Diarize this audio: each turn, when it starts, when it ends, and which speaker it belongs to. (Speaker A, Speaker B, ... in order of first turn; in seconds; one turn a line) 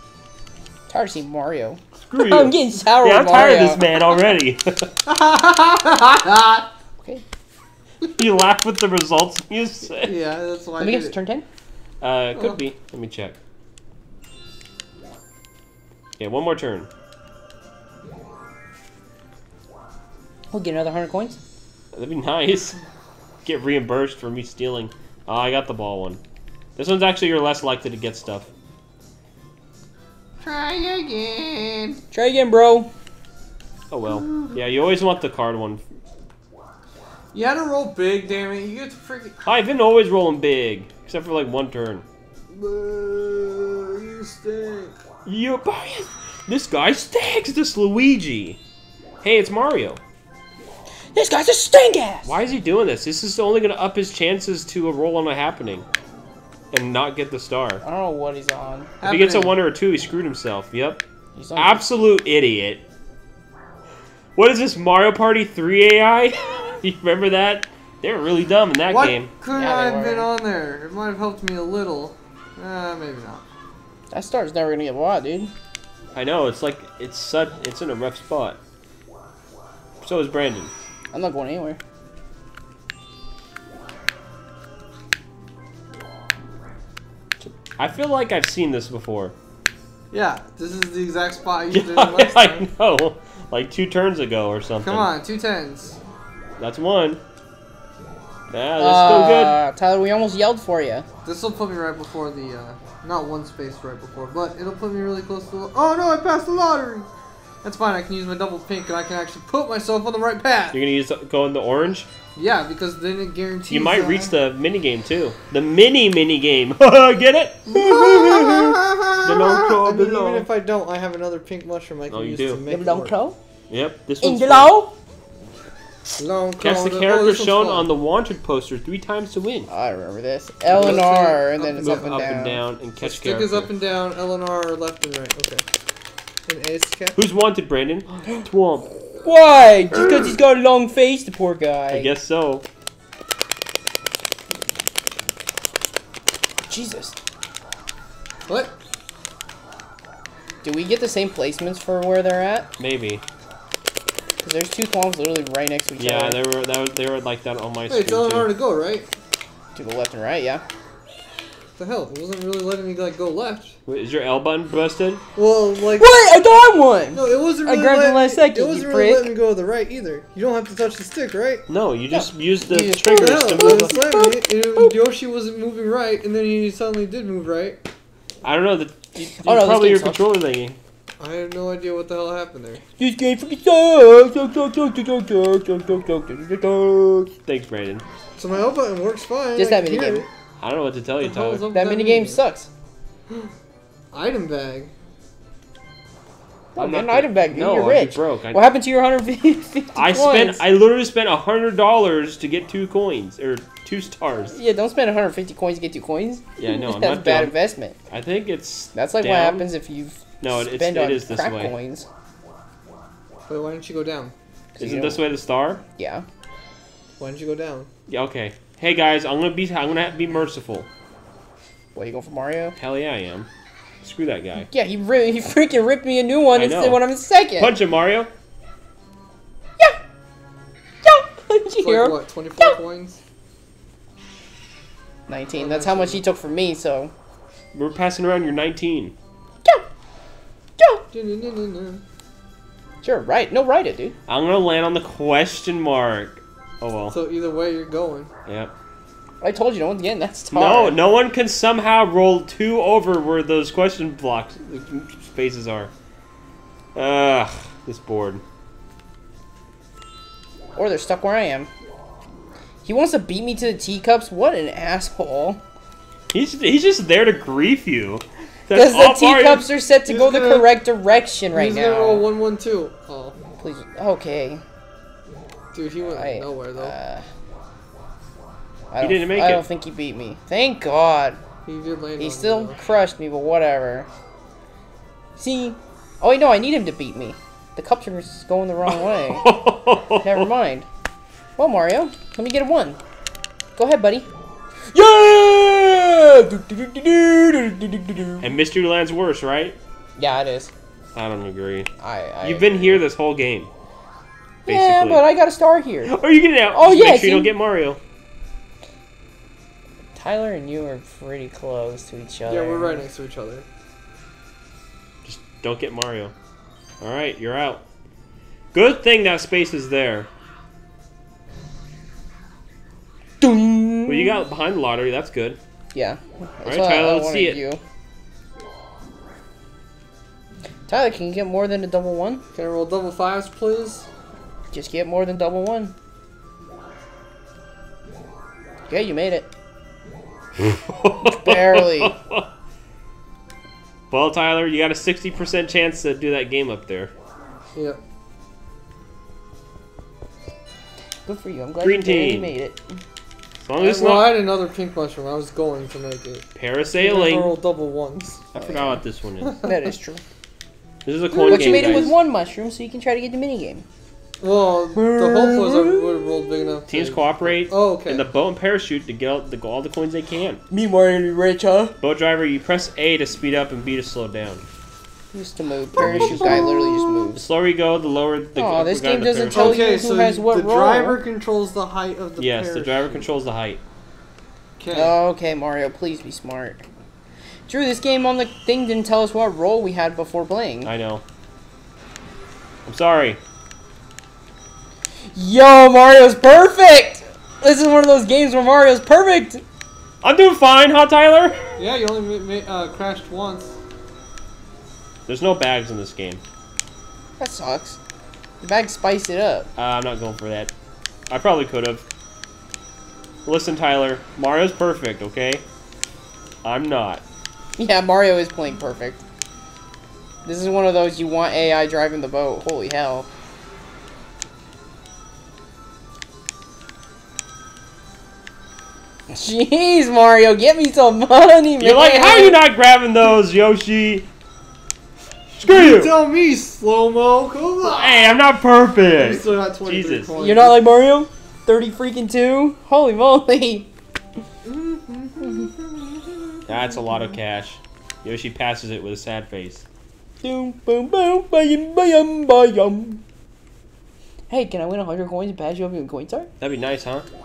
Speaker A: 0.9-3.8
Speaker B: 2.0-4.9
Speaker C: 5.1-6.7
Speaker B: 8.2-10.2
Speaker C: 10.0-11.2
Speaker A: 10.8-11.4
Speaker B: 12.0-13.4
Speaker C: 12.3-12.6
Speaker B: 16.2-16.9
Speaker A: 20.5-21.4
Speaker B: 21.9-22.8
Speaker B: 23.4-26.2
Speaker B: 26.8-28.5
Speaker C: 30.4-32.0
Speaker A: 32.1-32.9
Speaker B: 33.9-35.8
Speaker C: 34.1-34.6
Speaker C: 37.3-39.5
Speaker B: 39.5-42.0
Speaker C: 42.5-45.0
Speaker B: 45.3-48.6
Speaker B: 49.2-50.0
Speaker A: 51.1-52.4
Speaker B: 52.3-55.9
Speaker B: 56.7-57.8
Speaker A: 57.8-58.9
Speaker C: 59.0-59.6
Speaker B: 59.0-61.0
Speaker A: 61.4-61.8
Speaker B: 61.6-62.8
Speaker B: 64.4-69.3
Speaker C: 68.9-73.5
Speaker A: 69.5-70.3
Speaker A: 74.1-75.5
Speaker B: 76.1-78.6
Speaker B: 80.0-80.7
Speaker A: 81.1-81.8
Speaker B: 87.8-89.3
Speaker C: 90.1-92.7
Speaker B: 91.7-95.1
Speaker C: 94.8-96.0
Speaker B: 96.6-97.2
Speaker B: 98.5-99.6
Speaker A: 98.8-101.1
Speaker C: 101.2-107.1
Speaker C: 107.6-110.8
Speaker B: 110.7-112.1
Speaker C: 112.4-114.3
Speaker B: 113.7-118.0
Speaker C: 117.7-123.2
Speaker A: 117.7-118.8
Speaker B: 119.2-120.5
Speaker B: 122.1-122.6
Speaker A: 122.7-123.4
Speaker B: 123.7-124.7
Speaker A: 124.2-124.9
Speaker C: 126.2-127.9
Speaker B: 126.6-129.7
Speaker A: 129.7-132.6
Speaker C: 130.7-132.1
Speaker B: 130.8-131.0
Speaker B: 131.8-133.7
Speaker C: 133.0-135.6
Speaker C: 136.5-137.2
Speaker B: 137.2-138.9
Speaker A: 139.2-142.1
Speaker B: 141.9-142.6
Speaker A: 146.7-147.2
Speaker C: 148.5-148.7
Speaker A: 150.6-152.7
Speaker B: 152.8-153.2
Speaker A: 154.4-156.4
Speaker B: 156.0-158.5
Speaker C: 157.9-159.1
Speaker A: 159.8-160.6
Speaker C: 161.8-163.8
Speaker B: 163.9-165.2
Speaker C: 165.3-166.1
Speaker A: 166.0-169.3
Speaker C: 167.1-171.7
Speaker B: 171.7-174.0
Speaker A: 172.1-174.9
Speaker C: 173.1-177.8
Speaker B: 178.4-180.8
Speaker A: 179.4-180.3
Speaker C: 181.2-182.8
Speaker A: 183.0-187.3
Speaker B: 187.4-188.0
Speaker C: 188.4-190.3
Speaker A: 189.6-190.2
Speaker B: 190.6-191.7
Speaker C: 191.2-192.4
Speaker A: 191.7-192.7
Speaker C: 194.1-194.9
Speaker A: 196.8-200.6
Speaker B: 196.8-198.6
Speaker B: 199.9-204.6
Speaker A: 204.5-208.0
Speaker B: 206.6-207.6
Speaker B: 208.1-209.7
Speaker A: 208.9-212.1
Speaker B: 210.4-211.7
Speaker C: 213.5-214.3
Speaker A: 214.8-215.3
Speaker B: 214.8-215.8
Speaker A: 216.0-216.2
Speaker C: 217.2-217.9
Speaker B: 218.1-220.9
Speaker A: 221.9-222.8
Speaker B: 222.8-223.5
Speaker B: 224.0-224.7
Speaker A: 224.7-227.8
Speaker B: 226.5-227.1
Speaker B: 227.6-228.3
Speaker A: 231.0-232.8
Speaker C: 231.8-233.2
Speaker A: 235.3-237.1
Speaker C: 235.5-236.2
Speaker B: 237.7-239.2
Speaker A: 240.8-241.0
Speaker C: 241.1-242.0
Speaker A: 243.0-244.2
Speaker B: 244.3-247.2
Speaker C: 247.1-248.3
Speaker B: 248.5-248.7
Speaker A: 249.4-251.0
Speaker B: 250.5-255.9
Speaker B: 256.9-258.4
Speaker A: 260.8-261.7
Speaker A: 262.8-265.6
Speaker B: 266.3-269.7
Speaker A: 268.7-272.3
Speaker C: 270.1-270.8
Speaker C: 271.5-273.4
Speaker A: 273.6-274.6
Speaker C: 275.7-276.9
Speaker A: 276.1-277.2
Speaker A: 278.9-281.4
Speaker B: 279.0-279.6
Speaker C: 281.6-282.8
Speaker A: 282.2-284.1
Speaker A: 285.4-289.6
Speaker B: 288.9-290.5
Speaker A: 290.2-290.9
Speaker A: 291.6-293.0
Speaker A: 293.8-294.3
Speaker A: 294.9-298.5
Speaker B: 298.4-299.8
Speaker A: 300.2-300.7
Speaker B: 301.1-301.9
Speaker A: 302.0-303.0
Speaker B: 302.4-303.7
Speaker B: 304.7-305.2
Speaker A: 304.7-306.2
Speaker B: 306.1-308.0
Speaker A: 306.7-307.5
Speaker A: 310.1-313.1
Speaker C: 312.5-313.7
Speaker B: 315.2-316.3
Speaker B: 317.0-317.8
Speaker B: 318.7-320.3
Speaker A: 323.4-324.4
Speaker B: 324.1-325.6
Speaker A: 325.9-327.8
Speaker B: 326.6-327.6
Speaker A: 330.9-332.4
Speaker C: 332.6-334.1
Speaker A: 334.7-335.9
Speaker A: 338.9-339.5
Speaker B: 340.6-342.5
Speaker A: 341.2-342.1
Speaker B: 344.1-347.1
Speaker C: 347.8-348.0
Speaker A: 351.3-352.8
Speaker B: 351.8-352.5
Speaker B: 353.6-354.4
Speaker C: 353.8-358.4
Speaker B: 356.6-357.5
Speaker B: 358.5-359.5
Speaker A: 358.6-359.0
Speaker C: 359.4-359.9
Speaker A: 359.6-360.2
Speaker B: 361.1-362.2
Speaker A: 361.3-363.9
Speaker C: 361.5-362.0
Speaker C: 364.4-368.3
Speaker A: 364.9-366.1
Speaker B: 366.9-370.6
Speaker A: 370.7-372.0
Speaker B: 372.0-374.6
Speaker A: 375.3-377.4
Speaker B: 376.0-376.8
Speaker C: 376.0-376.8
Speaker B: 377.3-380.0
Speaker A: 378.6-381.2
Speaker C: 379.5-383.3
Speaker B: 382.4-383.8
Speaker C: 384.8-385.2
Speaker A: 384.9-386.8
Speaker A: 387.7-390.9
Speaker B: 390.9-391.2
Speaker B: 392.9-393.4
Speaker A: 395.3-399.6
Speaker B: 400.2-401.6
Speaker C: 401.8-403.7
Speaker B: 405.3-406.4
Speaker A: 407.4-408.0
Speaker A: 408.6-409.7
Speaker B: 409.8-410.7
Speaker B: 411.3-412.0
Speaker B: 413.4-415.6
Speaker B: 416.6-417.2
Speaker A: 417.8-419.2
Speaker A: 420.4-423.3
Speaker A: 429.3-432.6
Speaker B: 431.8-434.3
Speaker B: 435.6-436.2
Speaker C: 435.6-438.4
Speaker B: 437.9-440.3
Speaker C: 439.2-440.8
Speaker A: 440.4-443.9
Speaker C: 444.6-446.6
Speaker B: 446.7-449.8
Speaker A: 450.4-453.2
Speaker A: 454.5-456.5
Speaker B: 456.6-457.3